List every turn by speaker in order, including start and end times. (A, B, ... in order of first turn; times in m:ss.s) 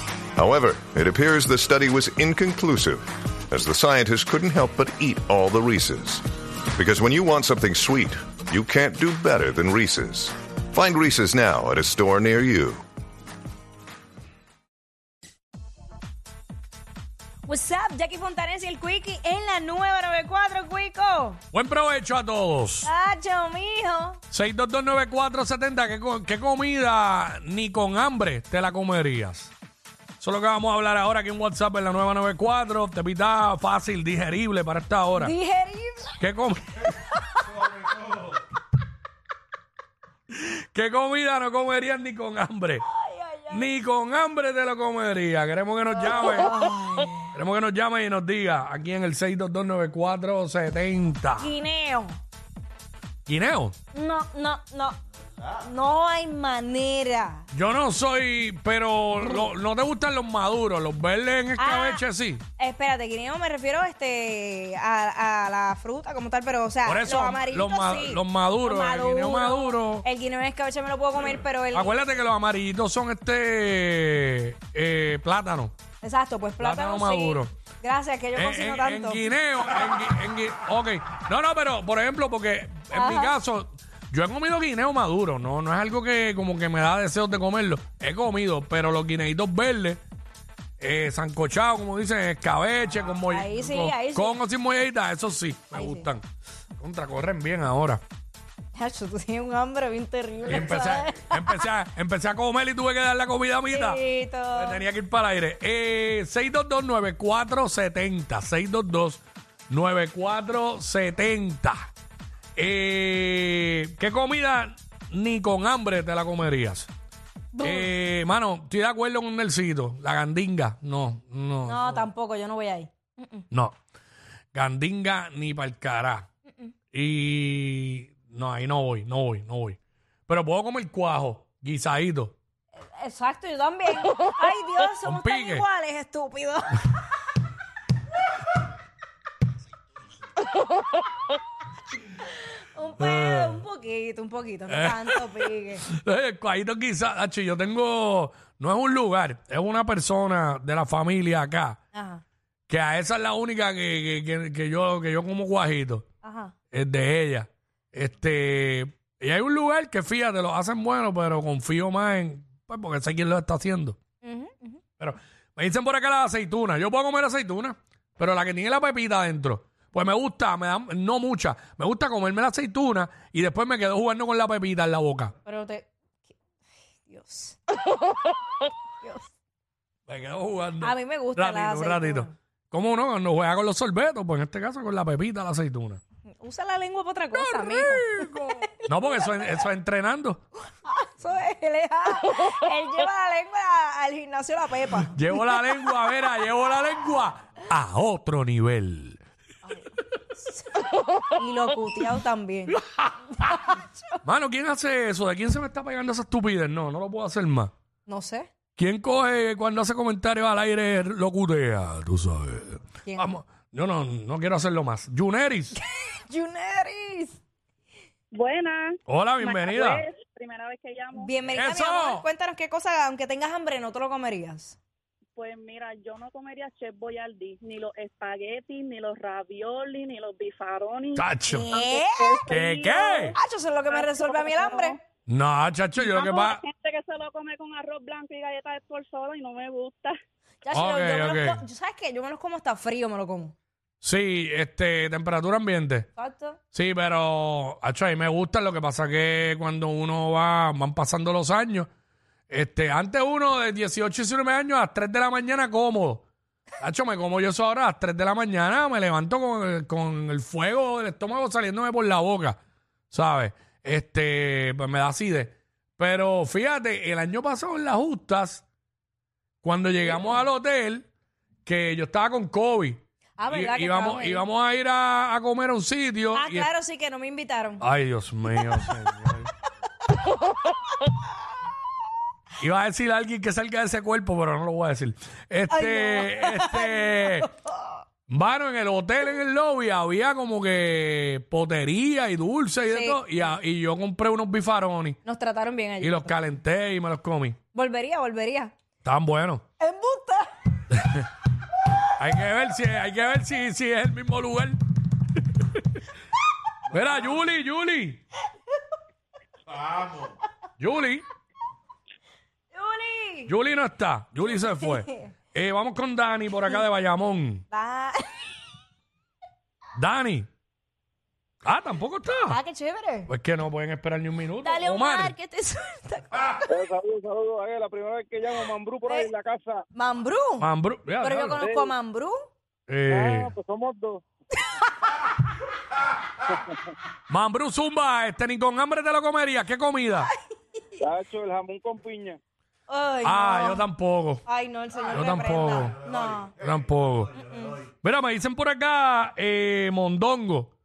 0:00.4-0:12.8 A
0:17.4-0:21.4 B
0:21.5-0:22.9 C
0:22.8-0:24.2 B
0:24.3-0:29.5 C
0:30.2-0:35.3 C
0:35.2-0:36.2 B
0:36.2-0:36.8 C
0:36.9-0:37.4 B
0:40.3-0:42.8 C
0:42.8-0:43.7 B
0:43.5-0:46.5 C
0:46.0-0:47.3 B
0:47.3-0:51.5 C
0:51.4-0:52.2 B
0:53.2-0:53.8 C
0:53.9-0:55.0 B
0:55.6-0:57.5 B
0:57.5-1:02.4 C
1:01.6-1:02.0 B
1:02.6-1:12.2 B
1:06.8-1:10.0 C
1:11.7-1:15.8 C
1:16.0-1:19.2 B
1:16.6-1:17.5 C
1:18.3-1:30.0 C
1:22.9-1:23.4 B
1:30.8-1:36.2 C
1:33.3-1:34.4 B
1:35.7-1:36.1 B
1:36.8-1:38.0 C
1:38.7-1:41.6 B
1:40.5-1:44.0 C
1:43.7-1:44.8 B
1:44.5-1:51.9 C
1:52.6-1:56.9 C
1:57.5-1:57.9 B
1:57.6-2:02.0 C
2:01.6-2:03.5 B
2:03.5-2:03.8 C
2:04.5-2:06.3 C
2:06.9-2:12.4 C
2:12.8-2:16.8 B
2:15.0-2:15.6 C
2:22.6-2:25.8 B
2:23.0-2:23.6 C
2:24.7-2:31.8 C
2:31.9-2:32.2 B
2:32.7-2:36.0 C
2:36.2-2:36.5 B
2:36.7-2:44.0 C
2:44.2-2:44.8 B
2:45.0-2:55.3 C
2:55.4-2:55.9 B
2:57.0-2:58.0 B
2:59.0-2:59.3 B
3:00.1-3:06.0 C
3:00.8-3:02.3 B
3:06.4-3:09.6 B
3:07.5-3:10.4 C
3:10.8-3:15.4 B
3:15.1-3:19.2 C
3:19.7-3:22.8 B
3:22.9-3:27.7 C
3:23.4-3:24.2 B
3:28.0-3:28.5 B
3:28.8-3:35.8 C
3:33.0-3:33.4 B
3:35.7-3:37.4 B
3:38.3-3:41.3 D
3:39.1-3:40.0 C
3:41.1-3:44.8 B
3:41.5-3:42.2 C
3:45.3-3:51.2 D
3:51.1-3:51.6 C
3:51.5-3:52.5 B
3:51.7-3:53.2 D
3:52.5-3:53.3 C
3:53.3-3:55.0 B
3:53.9-3:55.0 D
3:55.3-3:56.6 C
3:56.0-4:00.2 D
4:00.6-4:03.5 B
4:00.7-4:01.6 C
4:04.0-4:06.1 C
4:06.2-4:06.6 B
4:06.7-4:11.9 C
4:12.5-4:16.2 C
4:16.8-4:22.6 C
4:23.1-4:28.6 C
4:29.6-4:31.1 C
4:31.6-4:36.7 C
4:33.4-4:34.5 B
4:36.3-4:37.8 B
4:37.8-4:39.5 C
4:42.6-4:47.5 C
4:45.7-4:48.0 B
4:48.3-4:55.2 C
4:52.9-4:53.4 B
4:55.2-4:56.3 B
4:56.0-4:57.6 C
4:57.7-4:58.7 B
4:59.0-4:59.6 C
4:59.8-5:00.5 B
5:00.9-5:01.2 C
5:02.2-5:04.8 C
5:05.4-5:05.9 C
5:06.9-5:08.2 C
5:10.8-5:11.2 C
5:12.7-5:13.5 B
5:13.5-5:17.6 C
5:14.6-5:15.3 B
5:17.7-5:18.4 B
5:20.0-5:20.5 C
5:21.6-5:22.6 C
5:22.4-5:23.3 B
5:23.3-5:25.3 C
5:24.6-5:26.7 B
5:26.7-5:29.8 E
5:29.9-5:30.7 B
5:30.6-5:31.8 C
5:31.2-5:32.4 B
5:32.9-5:33.6 C
5:33.1-5:34.2 E
5:37.3-5:40.3 C
5:41.0-5:42.4 E
5:42.9-5:43.8 B
5:43.2-5:44.4 C
5:44.4-5:46.6 B
5:45.0-5:46.0 C
5:46.6-5:47.4 C
5:47.4-5:47.8 B
5:47.9-5:50.7 C